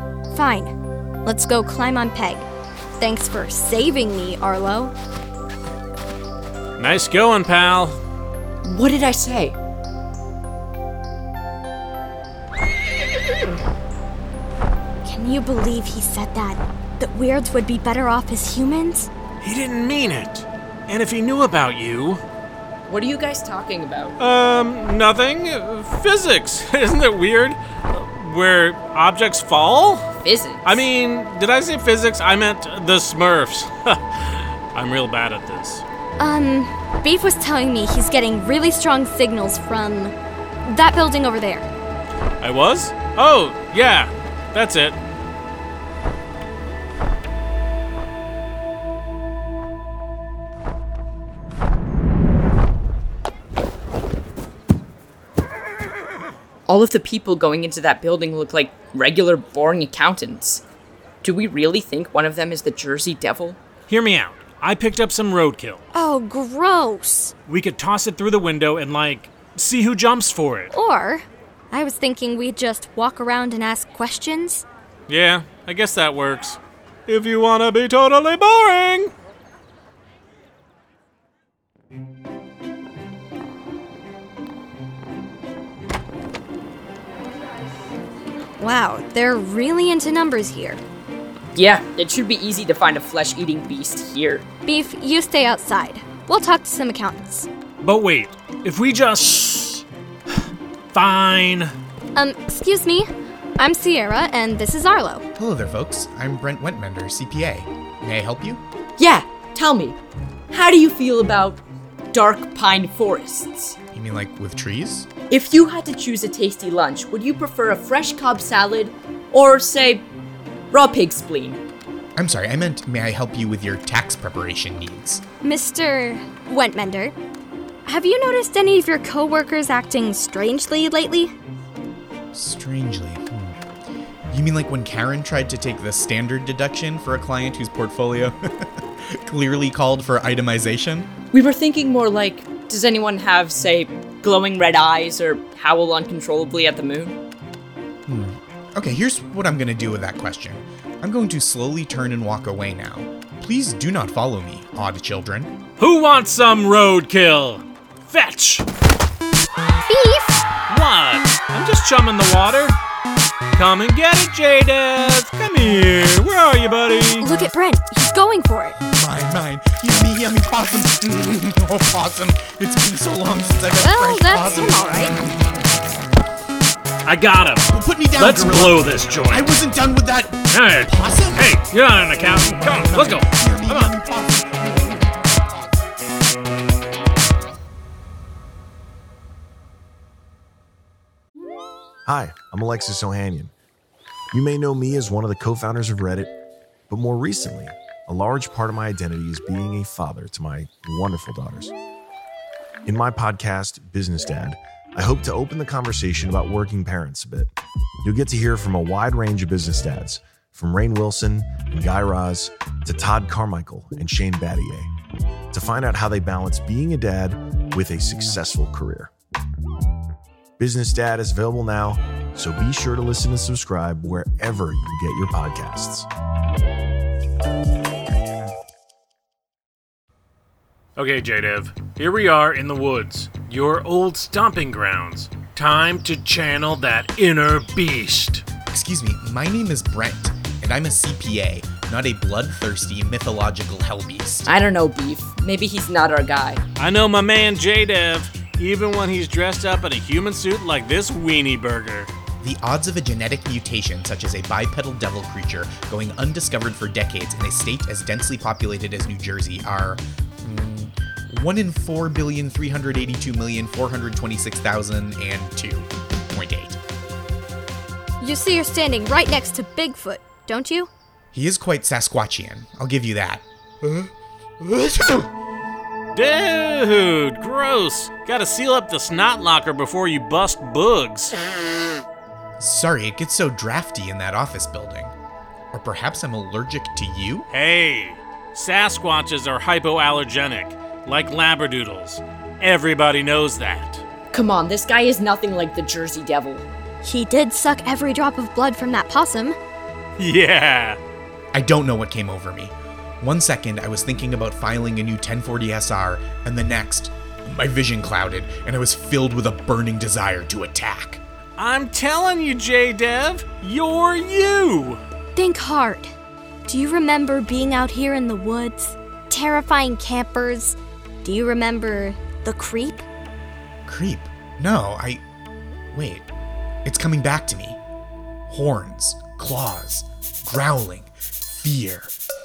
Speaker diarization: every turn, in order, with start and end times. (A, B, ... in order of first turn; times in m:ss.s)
0:00.3-0:00.7 A
0:01.2-0:02.5 A
0:03.0-0:04.9 A
0:06.8-0:08.0 B
0:08.6-0:09.6 C
0:15.0-0:19.1 A
0:19.4-0:22.2 B
0:22.9-0:24.1 C
0:24.2-0:30.0 B
0:30.2-0:30.9 C
0:30.6-0:35.8 B
0:36.2-0:40.1 A
0:40.6-0:41.7 A
0:42.4-0:45.0 B
0:56.7-1:00.6 C
1:01.2-1:03.6 C
1:03.9-1:05.8 B
1:05.9-1:07.3 A
1:07.5-1:10.7 B
1:10.7-1:14.6 A
1:15.1-1:19.1 B
1:28.6-1:30.8 A
1:31.5-1:34.5 C
1:34.6-1:37.5 A
1:37.8-1:39.8 B
1:40.9-1:41.7 B
1:42.1-1:43.1 A
1:43.6-1:45.2 A
1:45.4-1:48.6 D
1:49.0-1:50.0 C
1:50.5-1:51.6 C
1:52.1-1:53.8 C
1:53.9-1:55.1 D
1:55.3-2:00.1 C
2:00.7-2:01.6 C
2:02.2-2:05.2 D
2:05.4-2:07.1 A
2:07.8-2:11.3 A
2:12.3-2:13.6 D
2:14.3-2:21.1 D
2:21.3-2:27.2 C
2:28.1-2:35.5 D
2:35.8-2:38.6 B
2:39.9-2:40.4 A
2:40.7-2:42.8 B
2:43.5-2:47.3 B
2:47.2-2:48.8 A
2:48.8-2:55.0 D
2:53.8-2:55.1 A
2:57.0-2:59.7 B
2:57.7-3:01.5 D
3:00.5-3:03.9 B
3:02.7-3:05.0 D
3:12.1-3:13.5 E
3:14.3-3:16.3 E
3:16.9-3:21.7 E
3:22.8-3:27.5 E
3:28.0-3:34.9 E
3:35.5-3:39.1 E
3:40.6-3:46.1 E
3:51.0-3:58.4 B
3:58.7-4:04.5 D
4:04.4-4:06.6 C
4:06.8-4:12.1 B
4:12.4-4:26.8 D
4:28.2-4:30.9 A
4:31.3-4:33.4 D
4:34.8-4:35.2 D
4:36.1-4:41.3 B
4:42.6-4:45.1 D
4:45.7-4:47.5 D
4:47.5-4:54.0 B
4:54.3-4:56.6 C
4:57.0-4:59.6 A
5:00.2-5:01.0 B
5:01.5-5:11.2 D
5:11.6-5:15.0 B
5:15.4-5:16.1 A
5:16.7-5:23.0 A
5:23.8-5:25.2 D
5:25.9-5:26.3 D
5:26.8-5:27.8 D
5:28.5-5:32.2 D